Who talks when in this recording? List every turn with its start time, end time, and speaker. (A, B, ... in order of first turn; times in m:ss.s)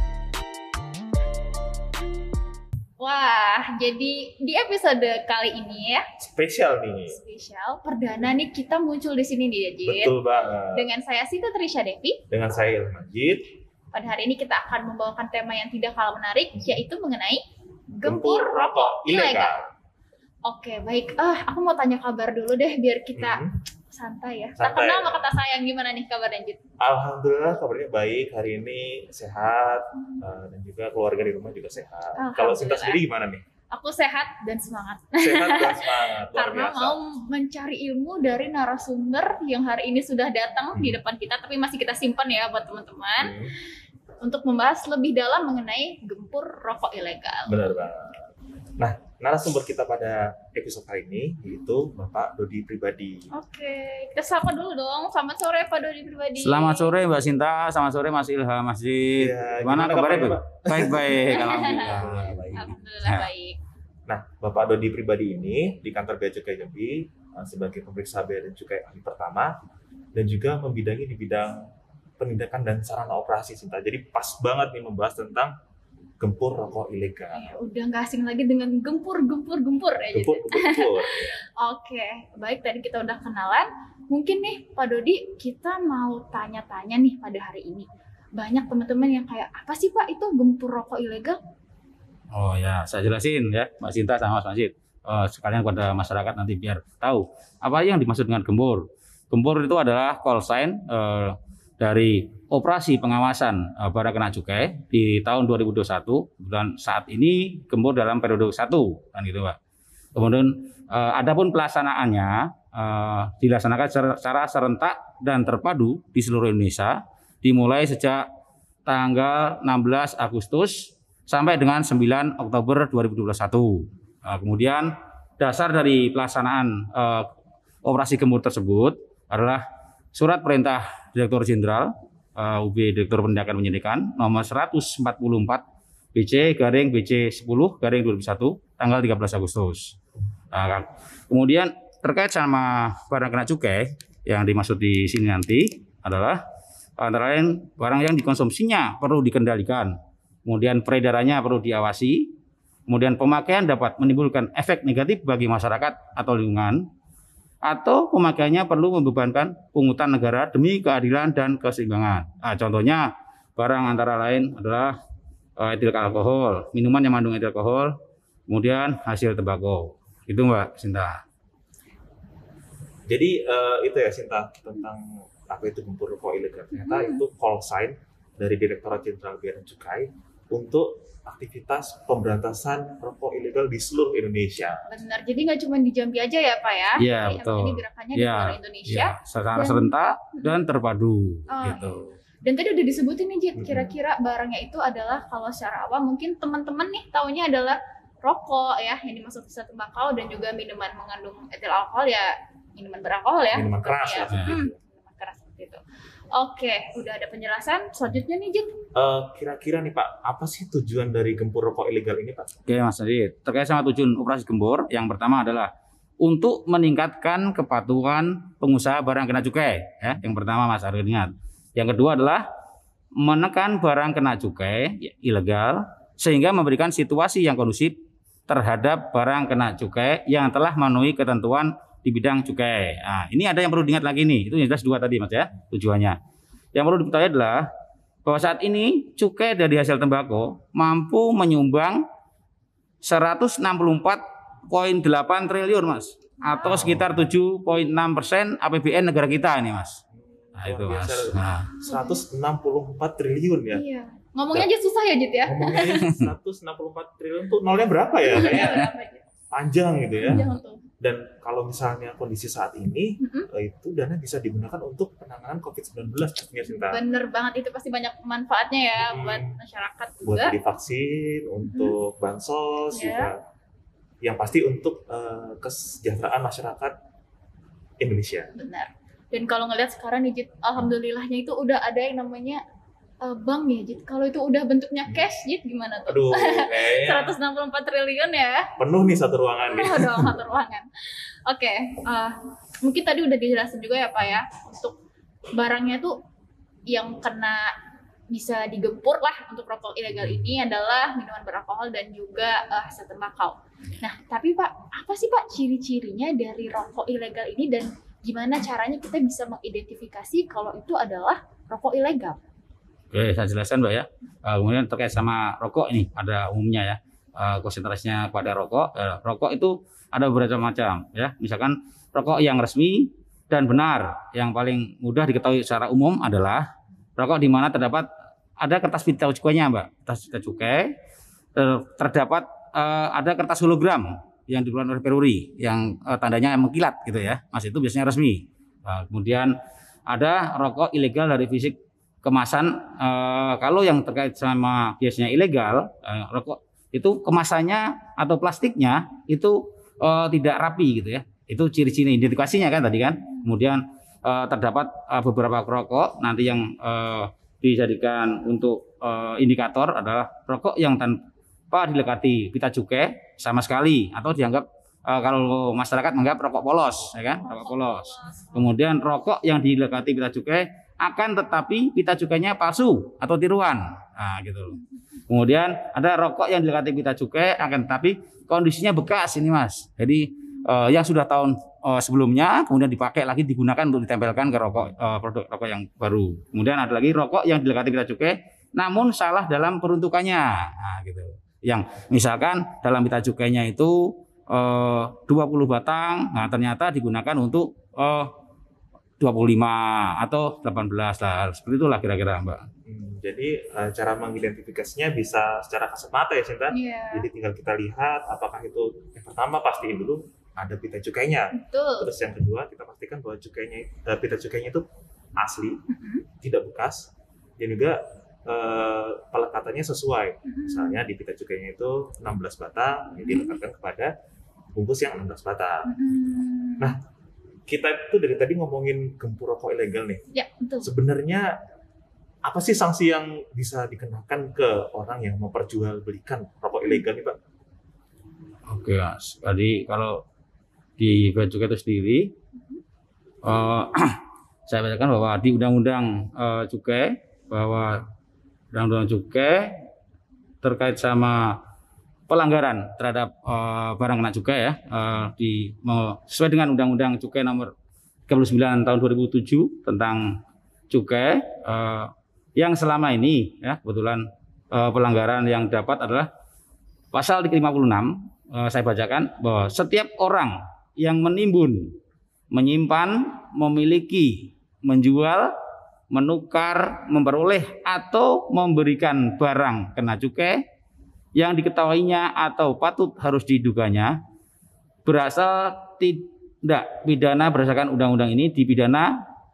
0:03.0-0:06.0 A
0:06.2-0:07.2 B
0:07.1-0:10.2 A
0:09.8-0:10.8 B
0:10.7-0:12.2 A
0:12.3-0:13.5 B
0:13.9-0:17.4 A
0:17.9-0:19.5 A
0:18.0-0:19.6 B
0:20.5-0:26.6 A
0:23.1-0:23.5 B
0:24.6-0:25.3 B
0:26.8-0:33.4 B
0:32.2-0:33.0 A
0:33.7-0:43.4 A
0:35.2-0:37.0 B
0:43.2-0:43.5 B
0:44.2-0:47.6 A
0:47.5-0:48.2 B
0:48.8-0:53.3 B
0:53.3-0:57.0 A
0:56.4-1:03.3 C
0:59.2-1:02.7 B
1:01.3-1:02.0 A
1:02.5-1:03.6 A
1:04.1-1:09.5 B
1:10.1-1:11.6 B
1:12.2-1:15.5 B
1:16.2-1:17.4 B
1:17.3-1:31.4 A
1:20.1-1:21.4 B
1:32.3-1:49.6 C
1:50.1-1:58.2 C
1:58.8-2:07.3 C
2:07.8-2:09.6 C
2:10.1-2:15.6 C
2:16.1-2:20.0 C
2:20.5-2:26.4 C
2:27.0-2:32.3 C
2:32.9-2:36.9 C
2:37.6-2:45.0 C
2:45.6-2:47.9 C
2:48.5-2:51.2 C
2:53.1-3:04.8 B
2:56.7-2:57.2 A
3:04.9-3:10.5 A
3:07.0-3:12.1 C
3:11.5-3:11.8 A
3:12.4-3:25.8 A
3:13.6-3:13.9 B
3:23.5-3:24.7 B
3:26.3-3:28.7 A
3:28.9-3:32.5 B
3:32.7-3:42.4 C
3:43.2-3:48.0 C
3:48.5-3:56.2 C
3:56.7-3:57.7 C
3:58.2-4:02.0 C
4:03.0-4:10.0 C
4:06.4-4:06.9 A
4:06.6-4:07.1 B
4:10.1-4:13.8 B
4:10.6-4:11.7 C
4:11.8-4:12.2 A
4:13.7-4:16.0 A
4:15.4-4:18.9 B
4:16.0-4:16.3 C
4:18.2-4:19.2 A
4:19.5-4:20.5 B
4:20.2-4:20.8 A
4:21.0-4:27.0 B
4:23.2-4:23.5 A
4:26.7-4:30.5 A
4:29.0-4:29.6 B
4:30.2-4:33.3 B
4:31.7-4:32.0 A
4:32.9-4:33.3 A
4:34.2-4:36.9 B
4:38.0-4:38.5 B
4:38.6-4:42.6 A
4:43.2-4:48.7 A
4:46.1-4:47.4 B
4:48.8-4:50.3 B
4:49.6-4:55.0 A
4:55.5-4:56.2 A
4:56.9-4:57.7 A
4:58.3-5:12.4 A
5:13.1-5:28.1 C
5:28.6-5:30.9 C
5:31.5-5:39.6 C
5:40.1-6:01.2 C
6:01.7-6:38.3 C
6:07.5-6:08.4 A
6:39.2-6:42.6 C
6:42.8-6:54.8 B
6:46.7-6:47.2 A
6:51.5-6:52.1 A
6:55.4-6:55.8 B
6:55.9-6:56.2 A
6:56.4-7:04.1 B
7:00.5-7:01.0 A
7:03.3-7:03.6 A
7:04.7-7:05.9 B
7:05.8-7:06.9 A
7:07.7-7:10.2 B
7:10.3-7:10.9 A
7:10.8-7:11.5 B
7:12.4-7:17.4 B
7:18.7-7:20.2 C
7:21.0-7:22.3 C
7:23.4-7:28.0 C
7:28.7-7:29.8 C
7:30.6-7:31.6 C
7:32.3-7:37.7 C
7:38.3-7:46.3 C
7:47.1-7:51.9 C
7:52.5-7:55.5 C
7:56.1-8:00.6 C
8:01.3-8:04.2 C
8:05.0-8:09.1 C